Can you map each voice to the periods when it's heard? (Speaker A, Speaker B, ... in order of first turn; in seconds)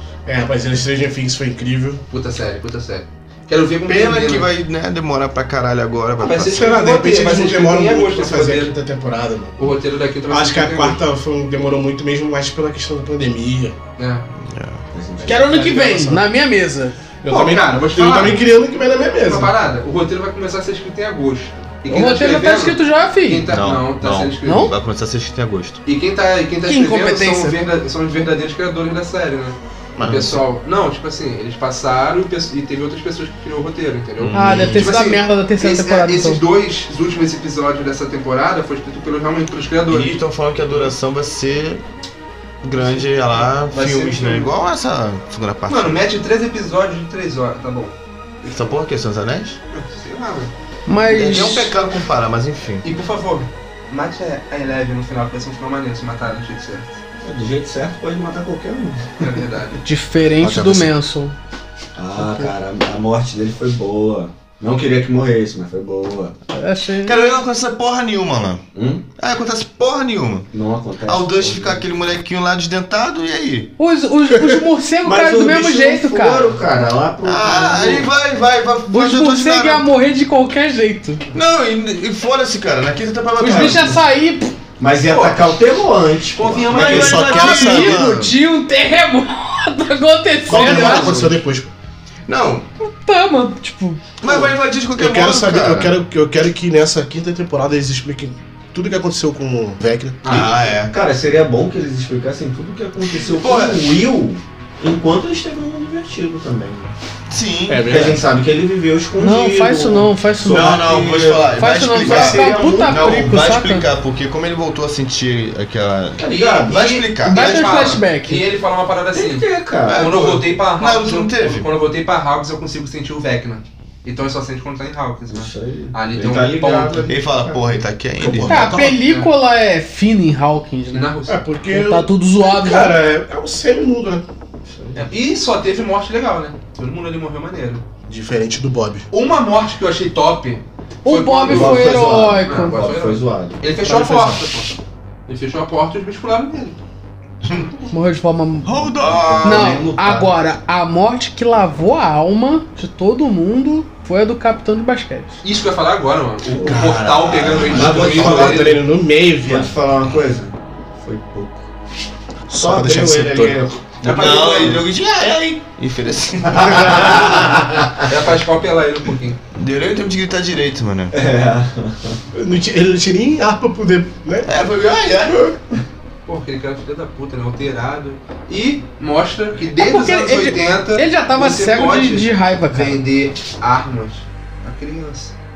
Speaker A: 0.2-2.0, 6.5-9.7, 10.3-13.8, 15.2-16.2, 17.2-19.5, 86.8-88.0, 90.5-91.7, 94.2-100.2, 107.7-108.2, 128.2-129.0, 131.3-134.2, 138.1-139.1, 143.8-144.4, 157.8-159.8, 162.5-163.7, 172.3-174.5
Speaker B: 2.1-4.5, 6.2-8.7, 9.6-11.0, 14.0-14.2, 17.3-18.5, 19.2-24.7, 25.9-40.9, 43.7-44.5, 45.7-48.7, 49.7-50.5, 51.3-51.7, 52.8-57.0, 59.2-59.8, 85.1-85.5, 86.3-87.5, 100.2-100.5, 116.3-127.1, 129.0-129.3, 130.9-131.4, 134.9-137.8, 139.1-146.8, 155.4-158.8, 164.1-164.7, 168.0-169.4, 176.2-185.3
Speaker C: 3.9-6.8, 14.3-14.8, 23.5-25.8, 29.9-30.4, 34.2-35.0, 39.9-41.8, 42.6-46.0, 48.4-49.6, 51.0-52.8, 60.4-60.9, 67.0-70.5, 71.0-73.7, 77.2-79.9, 81.3-84.0, 86.7-88.3, 90.5-91.2, 92.3-92.7, 94.2-96.0, 100.3-100.9, 103.2-103.9, 107.3-108.0, 110.4-117.8, 119.8-121.7, 127.1-128.8, 148.6-149.9, 156.6-158.2, 164.0-167.4, 169.5-171.1, 174.4-175.5
Speaker D: 14.9-15.7, 57.2-59.1, 62.0-66.3, 68.7-69.0, 70.5-71.8, 75.0-78.1, 84.8-87.3, 100.3-106.9, 107.8-113.3, 116.2-116.9, 119.1-120.2, 125.3-127.7, 134.7-135.0, 141.4-143.7, 149.1-150.3, 156.5-156.9, 157.7-158.8, 159.4-161.7, 162.5-164.9, 166.6-168.0, 171.1-172.2
Speaker E: 15.2-16.9, 21.9-23.4, 24.4-24.7, 26.7-27.6, 34.3-36.4, 50.9-51.7, 59.8-61.4, 62.2-62.5, 66.5-67.2, 73.8-76.6, 78.9-81.2, 83.4-84.5, 87.3-91.2, 92.8-94.0, 109.2-110.9, 111.5-113.9, 117.2-118.5, 128.5-131.1, 131.7-132.9, 141.0-142.8, 147.9-148.8, 149.4-155.4, 179.8-183.0